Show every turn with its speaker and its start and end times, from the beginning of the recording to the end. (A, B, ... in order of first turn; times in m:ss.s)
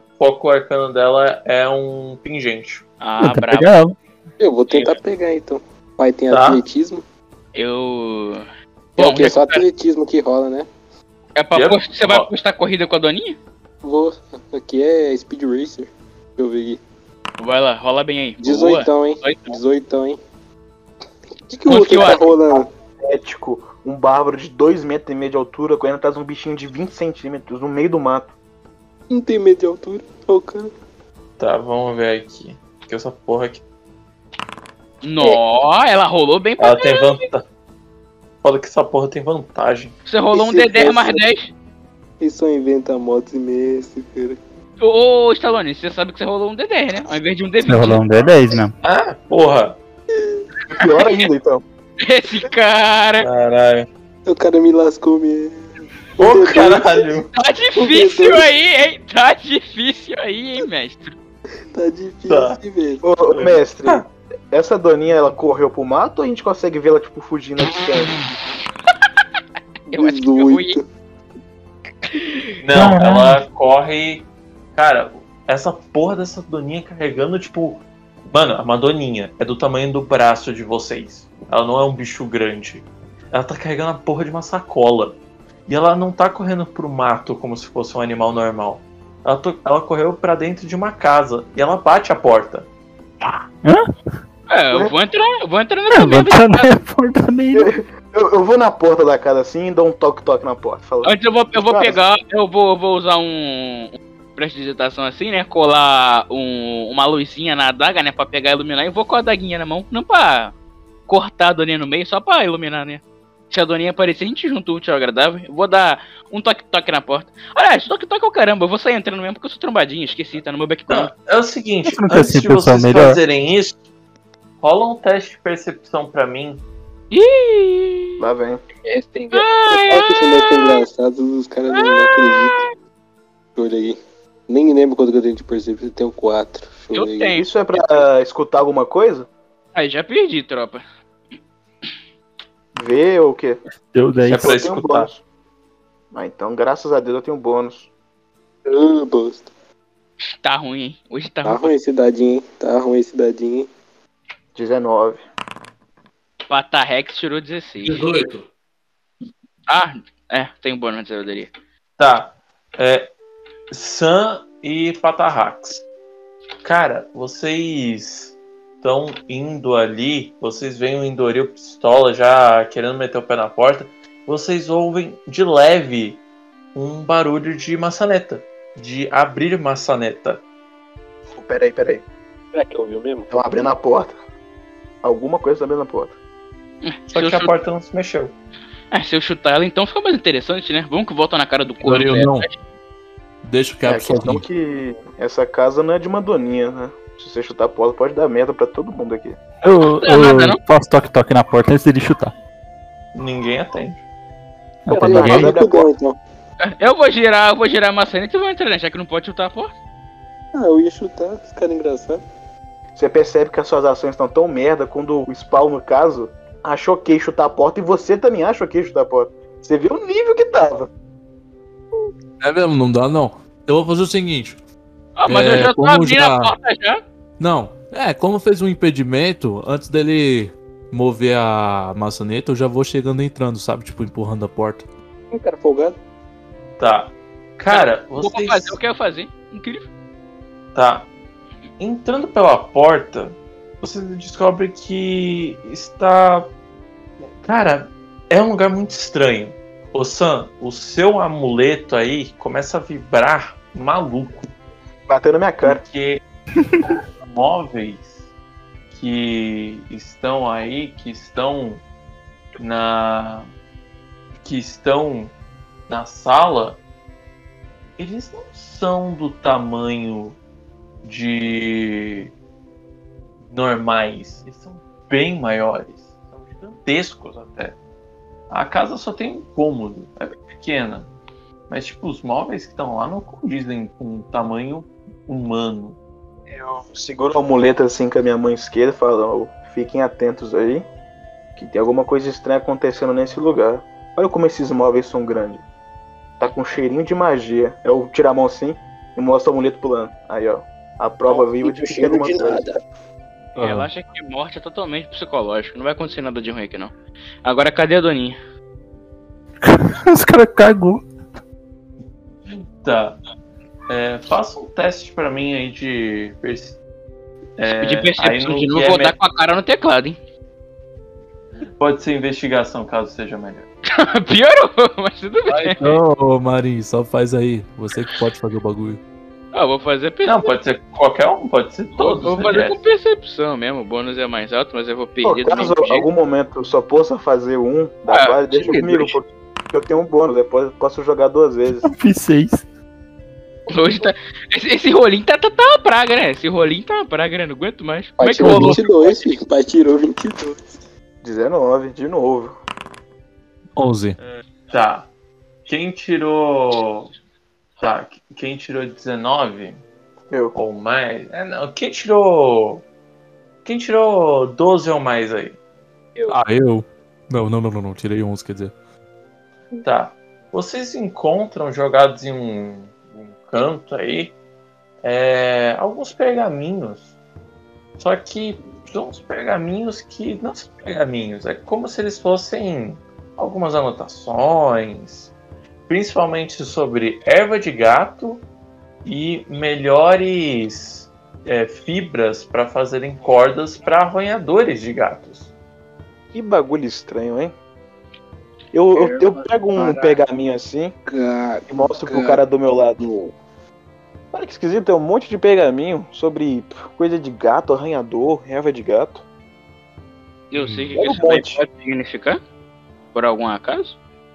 0:00.2-0:02.8 A
0:03.0-0:03.7 B
0:03.2-0:03.9 C
0:04.4-0:07.0 D
0:04.7-0:05.0 A
0:06.3-0:06.6 A
0:07.5-0:08.4 B
0:09.0-0:09.6 B
0:09.0-0:10.7 D
0:11.4-0:13.4 B
0:11.5-0:12.3 A
0:13.8-0:16.8 D
0:17.4-0:19.6 B
0:18.4-0:20.2 D
0:21.5-0:22.7 D
0:21.7-0:22.3 B
0:21.9-0:28.3 E
0:29.1-0:30.7 D
0:31.4-0:33.6 A
0:35.0-0:37.2 B
0:36.6-0:37.4 A
0:38.4-0:39.9 A
0:40.0-0:41.5 B
0:40.3-0:41.2 D
0:42.2-0:44.4 D
0:44.8-0:48.0 B
0:47.6-0:48.7 C
0:48.8-0:49.8 A
0:50.7-0:51.6 E
0:50.8-0:51.1 B
0:52.0-0:53.3 B
0:53.2-0:53.9 A
0:54.2-0:55.6 D
0:56.2-0:57.3 A
0:56.2-0:57.1 D
0:57.3-1:01.1 B
0:57.7-0:58.5 D
1:01.7-1:03.0 D
1:02.3-1:02.6 A
1:03.0-1:08.3 E
1:03.3-1:04.0 A
1:09.9-1:10.8 D
1:09.9-1:10.8 B
1:12.1-1:12.5 B
1:12.6-1:32.7 A
1:12.7-1:13.4 C
1:33.6-1:33.9 C
1:34.5-1:36.7 B
1:35.9-1:37.7 C
1:37.5-1:42.0 E
1:41.0-1:50.5 B
1:51.1-2:01.1 B
2:00.9-2:03.8 A
2:01.8-2:03.2 C
2:04.6-2:06.6 A
2:07.1-2:08.2 B
2:08.2-2:08.6 E
2:08.8-2:12.7 D
2:09.3-2:10.8 B
2:11.7-2:12.7 B
2:13.6-2:17.3 D
2:16.9-2:17.5 B
2:17.3-2:19.3 E
2:19.8-2:20.8 B
2:22.7-2:23.6 E
2:23.9-2:24.5 C
2:24.2-2:25.1 A
2:24.4-2:25.2 E
2:26.1-2:27.9 E
2:28.6-2:29.5 D
2:30.4-2:31.7 B
2:31.4-2:33.7 D
2:34.6-2:35.2 E
2:36.5-2:38.0 B
2:37.8-2:38.5 F
2:39.7-2:41.5 B
2:42.0-2:43.1 A
2:43.7-2:45.8 A
2:46.6-2:56.2 A
2:56.7-3:00.4 A
3:01.3-3:02.0 E
3:02.5-3:03.3 D
3:03.3-3:04.2 E
3:05.0-3:06.1 E
3:06.8-3:07.5 B
3:07.1-3:08.3 A
3:08.9-3:12.5 B
3:11.8-3:12.5 F
3:13.4-3:14.4 F
3:13.8-3:19.4 E
3:19.6-3:22.3 C
3:20.0-3:20.6 B
3:23.1-3:24.0 A
3:24.8-3:25.6 C
3:24.9-3:26.2 D
3:24.9-3:25.9 E
3:26.8-3:29.7 B
3:30.5-3:32.2 D
3:33.0-3:40.9 E
3:42.4-3:44.6 F
3:45.2-3:47.0 B
3:45.3-3:46.5 F
3:47.4-3:54.8 F
3:55.3-3:56.0 D
3:56.8-3:58.8 A
3:57.7-3:59.9 B
4:00.7-4:01.1 A
4:01.8-4:06.5 A
4:07.4-4:14.5 A
4:15.1-4:15.8 E
4:15.6-4:16.2 A
4:17.2-4:18.1 A
4:18.9-4:21.8 A
4:22.6-4:23.5 A
4:24.4-4:25.3 A
4:25.9-4:26.8 A
4:28.0-4:30.4 A
4:31.0-4:32.3 A
4:33.4-4:37.8 A
4:38.5-4:41.1 A
4:41.7-4:46.0 A
4:46.5-4:46.8 D
4:46.9-4:50.8 E
4:51.6-4:55.6 E
4:56.4-5:02.7 E
5:01.3-5:02.8 D
5:03.6-5:03.9 F
5:03.6-5:06.9 B
5:07.4-5:08.4 B
5:09.6-5:11.0 C
5:12.5-5:13.2 A
5:13.9-5:16.8 A
5:17.6-5:19.1 A
5:17.6-5:20.2 B
5:21.8-5:23.7 A
5:23.9-5:26.0 B
5:25.5-5:29.0 F
5:29.5-5:30.5 B
5:30.2-5:32.8 A
5:32.0-5:36.1 B
5:35.2-5:41.9 E
5:38.1-5:39.0 B
5:41.8-5:42.6 C
5:43.7-5:48.9 B
5:48.2-5:50.6 D
5:48.4-5:48.8 F
5:51.2-5:52.6 E
5:53.8-5:54.2 F
5:54.2-5:55.1 A
5:55.6-5:57.1 A
5:57.8-5:59.8 A
6:00.5-6:02.8 A
6:03.6-6:05.6 A
6:06.3-6:08.7 F
6:09.8-6:14.4 A
6:15.0-6:17.1 A
6:18.0-6:25.3 A
6:25.9-6:28.4 A
6:29.0-6:35.5 A
6:36.3-6:37.5 E
6:38.7-6:40.9 E
6:38.9-6:40.2 D
6:41.0-6:42.4 D
6:41.7-6:43.0 E
6:43.0-6:43.3 D
6:44.3-6:49.2 E
6:50.5-6:52.4 B
6:50.5-6:50.9 F
6:51.0-6:51.6 E
6:53.1-6:54.0 B